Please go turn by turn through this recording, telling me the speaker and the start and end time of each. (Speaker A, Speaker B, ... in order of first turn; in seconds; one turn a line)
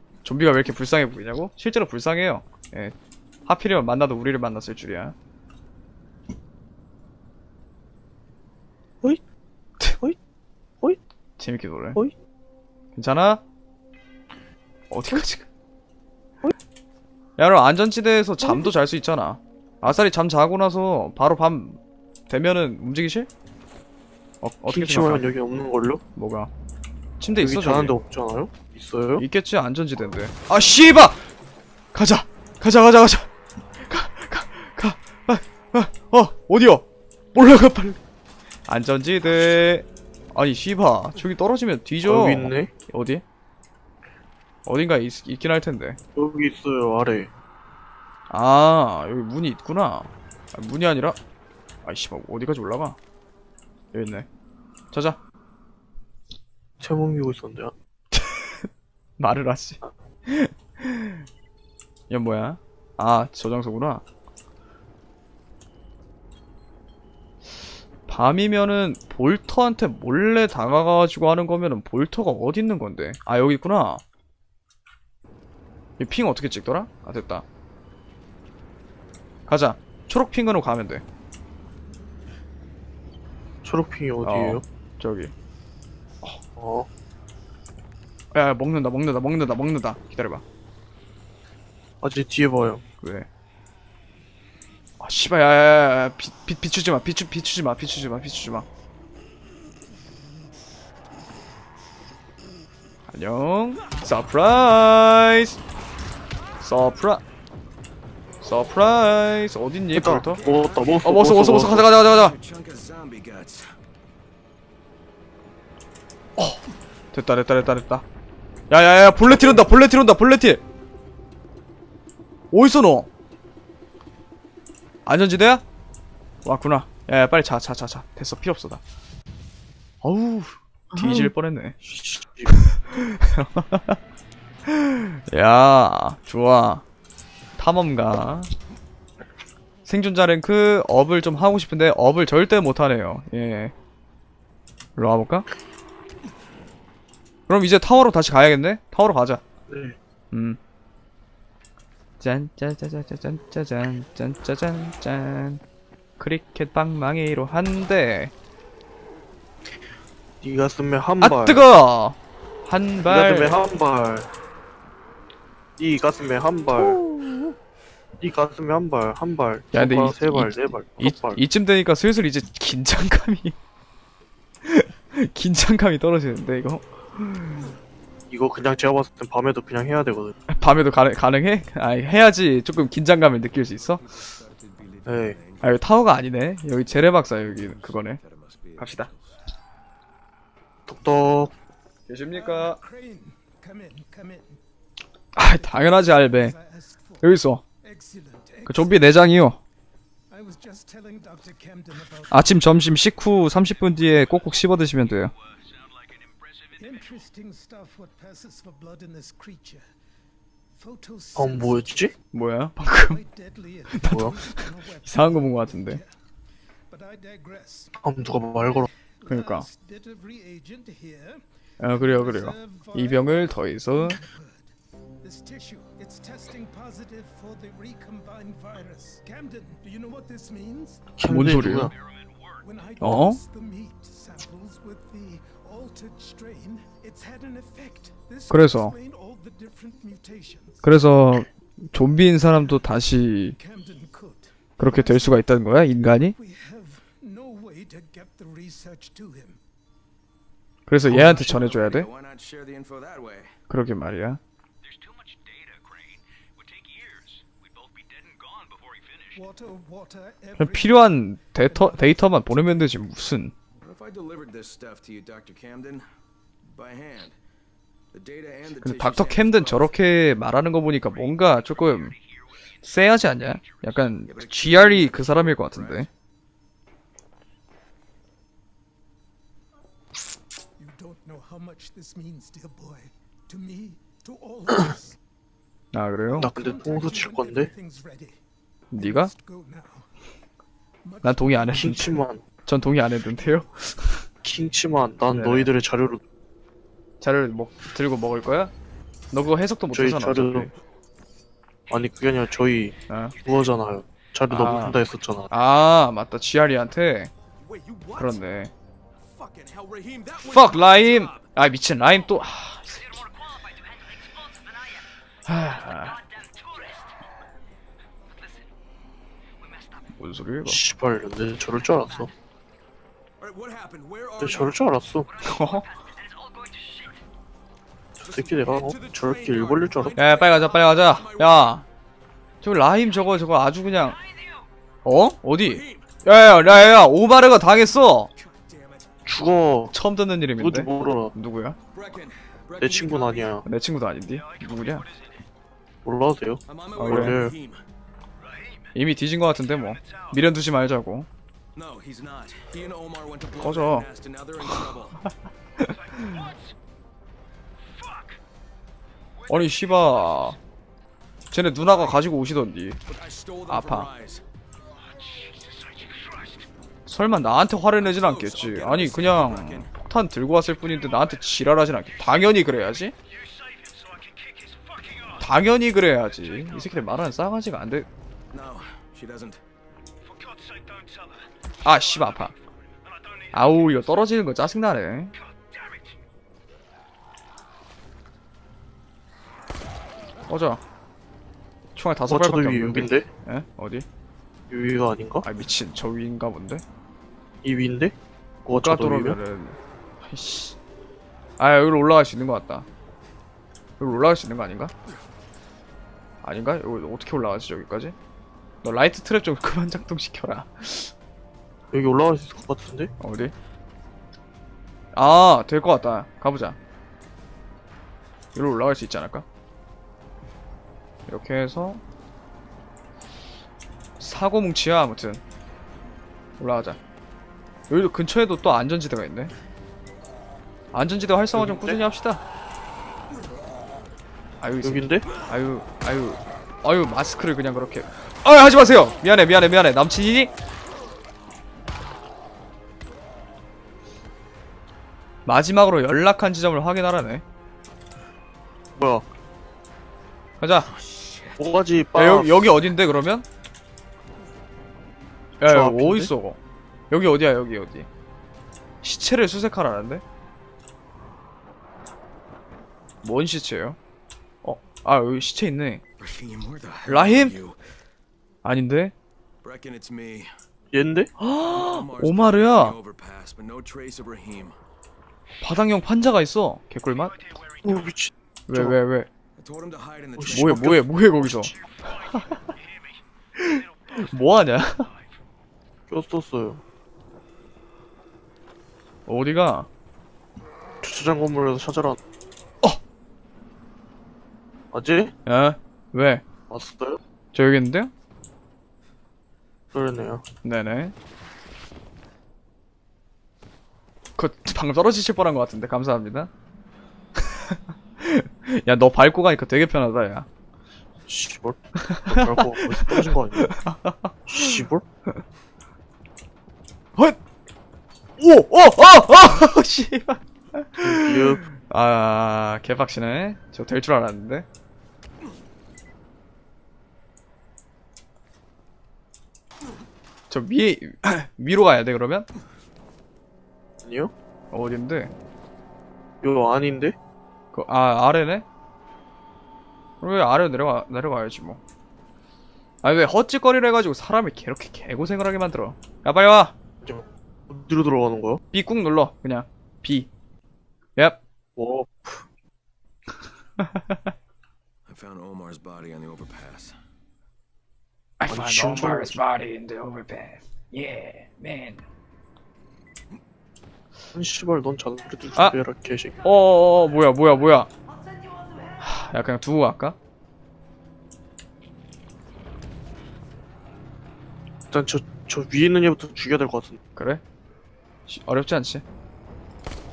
Speaker A: 0.2-2.9
Speaker A: 3.5-5.1
Speaker A: 11.4-12.0
Speaker A: 12.9-13.4
Speaker A: 14.9-15.5
Speaker A: 17.4-23.3
Speaker B: 18.4-18.7
Speaker A: 24.4-25.3
Speaker B: 24.7-26.0
Speaker A: 26.1-26.5
Speaker A: 27.2-27.9
Speaker B: 27.4-29.2
Speaker A: 29.2-31.2
Speaker A: 31.9-33.3
Speaker A: 33.9-38.0
Speaker A: 38.7-43.2
Speaker B: 42.0-42.7
Speaker A: 44.6-46.0
Speaker B: 46.1-47.3
Speaker A: 48.3-51.1
Speaker A: 51.8-53.0
Speaker A: 53.9-54.3
Speaker A: 54.9-55.2
Speaker B: 56.8-57.7
Speaker A: 58.1-61.2
Speaker A: 62.1-64.0
Speaker A: 68.1-74.0
Speaker A: 76.0-77.4
Speaker A: 79.5-81.0
Speaker B: 83.6-84.6
Speaker A: 84.2-85.3
Speaker B: 86.5-86.9
Speaker A: 88.3-90.4
Speaker B: 92.0-92.8
Speaker A: 93.0-93.3
Speaker A: 95.0-98.7
Speaker A: 103.1-105.6
Speaker A: 106.6-107.2
Speaker A: 108.4-110.4
Speaker B: 109.9-111.9
Speaker C: 110.3-110.9
Speaker D: 110.4-111.0
Speaker A: 111.0-112.3
Speaker D: 112.1-113.6
Speaker A: 116.4-116.6
Speaker A: 117.1-118.0
Speaker A: 118.7-120.6
Speaker B: 119.2-119.6
Speaker A: 122.5-123.1
Speaker A: 125.0-125.6
Speaker A: 126.4-128.8
Speaker A: 130.0-131.8
Speaker B: 130.9-131.3
Speaker B: 131.8-132.7
Speaker A: 132.5-134.0
Speaker A: 134.7-136.8
Speaker A: 137.6-138.5
Speaker A: 139.8-143.7
Speaker A: 145.0-145.5
Speaker A: 147.5-149.4
Speaker B: 149.7-150.0
Speaker A: 150.3-150.6
Speaker A: 152.2-155.6
Speaker A: 156.2-158.3
Speaker B: 160.4-161.6
Speaker A: 161.2-163.6
Speaker B: 163.0-164.3
Speaker B: 165.8-167.0
Speaker A: 166.8-167.5
Speaker B: 168.2-171.4
Speaker A: 169.7-173.6
Speaker A: 174.6-177.7
Speaker B: 178.3-180.3
Speaker A: 180.5-184.0
Speaker D: 183.9-185.7
Speaker B: 185.1-185.4
Speaker A: 185.6-188.2
Speaker D: 187.5-189.3
Speaker A: 188.8-189.1
Speaker B: 190.9-191.5
Speaker A: 192.1-192.8
Speaker E: 192.3-194.6
Speaker A: 195.3-196.5
Speaker E: 195.5-199.2
Speaker A: 197.2-197.6
Speaker A: 198.7-199.6
Speaker E: 200.3-202.7
Speaker A: 202.3-205.3
Speaker C: 204.0-204.5
Speaker C: 205.3-207.2
Speaker E: 206.8-209.8
Speaker E: 210.8-212.1
Speaker B: 211.3-212.1
Speaker A: 212.3-213.2
Speaker E: 212.9-216.1
Speaker A: 213.9-216.0
Speaker B: 214.1-214.3
Speaker E: 216.9-218.0
Speaker B: 218.0-218.9
Speaker E: 218.8-231.1
Speaker A: 219.3-219.7
Speaker A: 221.8-224.2
Speaker B: 231.2-231.9
Speaker A: 231.2-231.9
Speaker C: 231.7-232.6
Speaker E: 232.6-240.9
Speaker A: 233.0-233.4
Speaker A: 238.5-238.9
Speaker A: 240.8-243.6
Speaker E: 242.5-242.8
Speaker E: 243.6-245.4
Speaker A: 244.8-246.3
Speaker E: 246.3-249.6
Speaker A: 250.9-252.1
Speaker B: 251.0-251.4
Speaker D: 251.4-253.4
Speaker C: 251.5-252.1
Speaker A: 253.7-254.4
Speaker C: 254.8-259.4
Speaker E: 259.3-262.9
Speaker A: 260.6-263.5
Speaker D: 263.8-266.0
Speaker D: 266.7-267.3
Speaker D: 268.1-269.9
Speaker C: 268.7-269.8
Speaker A: 268.8-272.1
Speaker C: 271.1-272.8
Speaker A: 272.8-276.1
Speaker C: 273.3-273.9
Speaker D: 274.3-276.1
Speaker C: 274.6-275.6
Speaker E: 280.8-285.2
Speaker A: 285.9-286.5
Speaker B: 286.3-287.7
Speaker E: 286.3-288.4
Speaker A: 288.9-289.3
Speaker E: 288.9-290.1
Speaker E: 291.0-292.1
Speaker A: 291.2-294.2
Speaker B: 291.7-292.4
Speaker B: 294.4-296.2
Speaker A: 295.3-295.7
Speaker A: 297.2-298.7
Speaker A: 299.3-300.7
Speaker B: 299.9-300.7
Speaker B: 301.9-305.5
Speaker A: 303.1-303.3
Speaker A: 304.5-307.3
Speaker C: 307.7-308.3
Speaker D: 307.7-308.1
Speaker A: 308.1-308.7
Speaker C: 309.3-311.4
Speaker D: 309.7-310.5
Speaker A: 310.4-313.2
Speaker C: 312.9-317.1
Speaker A: 315.5-316.2
Speaker C: 318.2-318.7
Speaker C: 319.6-320.1
Speaker A: 320.1-320.8
Speaker B: 320.6-322.3
Speaker D: 323.4-324.5
Speaker C: 323.9-327.2
Speaker B: 324.4-325.3
Speaker A: 325.4-325.9
Speaker B: 328.2-330.2
Speaker C: 328.3-331.8
Speaker D: 328.4-330.2
Speaker A: 330.2-331.8
Speaker A: 332.6-334.2
Speaker C: 334.1-334.7
Speaker A: 335.0-338.3
Speaker C: 338.4-339.1
Speaker B: 339.2-339.9
Speaker A: 339.9-341.8
Speaker B: 340.6-341.3
Speaker D: 341.9-343.4
Speaker B: 342.8-343.6
Speaker C: 342.8-343.5
Speaker A: 343.6-345.1
Speaker C: 344.5-345.3
Speaker B: 346.0-347.5
Speaker D: 346.7-347.7
Speaker C: 346.7-347.5
Speaker A: 346.9-347.4
Speaker C: 348.5-348.8
Speaker A: 348.9-351.3
Speaker D: 351.8-355.1
Speaker A: 353.6-354.1
Speaker C: 353.7-354.0
Speaker A: 354.6-355.3
Speaker A: 355.8-356.5
Speaker C: 356.1-356.6
Speaker C: 359.4-360.5
Speaker A: 359.5-360.6
Speaker A: 361.5-363.0
Speaker D: 363.1-364.4
Speaker A: 363.7-364.1
Speaker C: 365.1-366.6
Speaker A: 367.1-373.1
Speaker C: 368.0-369.8
Speaker D: 368.4-369.8
Speaker C: 373.4-375.3
Speaker A: 375.4-378.1
Speaker D: 378.5-379.6
Speaker C: 380.3-381.4
Speaker A: 381.8-382.5
Speaker A: 383.5-385.3
Speaker C: 385.7-386.0
Speaker A: 390.5-390.8
Speaker A: 391.9-394.1
Speaker B: 392.3-393.3
Speaker B: 394.7-395.4
Speaker A: 395.4-396.8
Speaker B: 397.6-399.4
Speaker A: 398.7-400.8
Speaker A: 401.6-402.9
Speaker A: 404.0-404.9
Speaker A: 406.4-408.1
Speaker A: 408.8-411.1
Speaker B: 411.9-413.1
Speaker A: 413.2-413.5
Speaker A: 415.1-416.8
Speaker A: 418.5-419.4
Speaker A: 421.3-422.0
Speaker A: 424.2-425.4
Speaker A: 426.6-427.0
Speaker A: 427.9-429.5
Speaker A: 430.9-432.4
Speaker B: 431.5-432.0
Speaker A: 434.6-440.5
Speaker B: 434.8-435.2
Speaker A: 445.4-447.4
Speaker B: 448.9-449.2
Speaker A: 450.6-450.9
Speaker B: 451.6-452.6
Speaker A: 452.1-453.4
Speaker A: 455.6-456.6
Speaker B: 455.6-456.3
Speaker A: 457.1-458.1
Speaker A: 459.0-460.2
Speaker A: 463.2-464.0
Speaker A: 464.6-466.0
Speaker D: 466.2-467.7
Speaker A: 467.1-467.6
Speaker A: 468.6-469.1
Speaker D: 469.6-470.4
Speaker B: 470.9-471.3
Speaker A: 471.4-472.9
Speaker D: 471.7-474.7
Speaker A: 475.6-477.5
Speaker B: 477.8-479.0
Speaker A: 478.7-479.3
Speaker D: 479.6-480.6
Speaker B: 480.4-481.7
Speaker A: 480.5-482.7
Speaker A: 483.6-485.1
Speaker B: 486.1-486.8
Speaker A: 489.3-489.9
Speaker B: 491.0-492.2
Speaker B: 494.9-495.3
Speaker A: 495.4-496.4
Speaker B: 496.7-497.2
Speaker A: 497.5-498.1
Speaker B: 499.9-500.4
Speaker A: 500.6-501.1
Speaker A: 504.4-506.5
Speaker A: 507.4-510.5
Speaker B: 511.3-513.7
Speaker A: 512.0-515.4
Speaker B: 514.5-515.0
Speaker A: 518.4-524.6
Speaker B: 521.0-521.6
Speaker A: 530.5-532.5
Speaker B: 534.0-534.3
Speaker A: 534.7-535.3
Speaker B: 536.4-537.1
Speaker A: 537.7-538.6
Speaker A: 540.2-541.8
Speaker A: 543.0-546.7
Speaker B: 547.0-548.6
Speaker A: 548.7-550.3
Speaker B: 551.8-552.5
Speaker A: 553.8-554.3
Speaker D: 555.1-556.9
Speaker A: 558.4-562.0
Speaker B: 558.5-559.4
Speaker B: 564.3-566.4
Speaker A: 566.4-567.9
Speaker A: 569.0-570.1
Speaker B: 574.9-577.0
Speaker A: 577.1-577.4
Speaker A: 578.3-579.0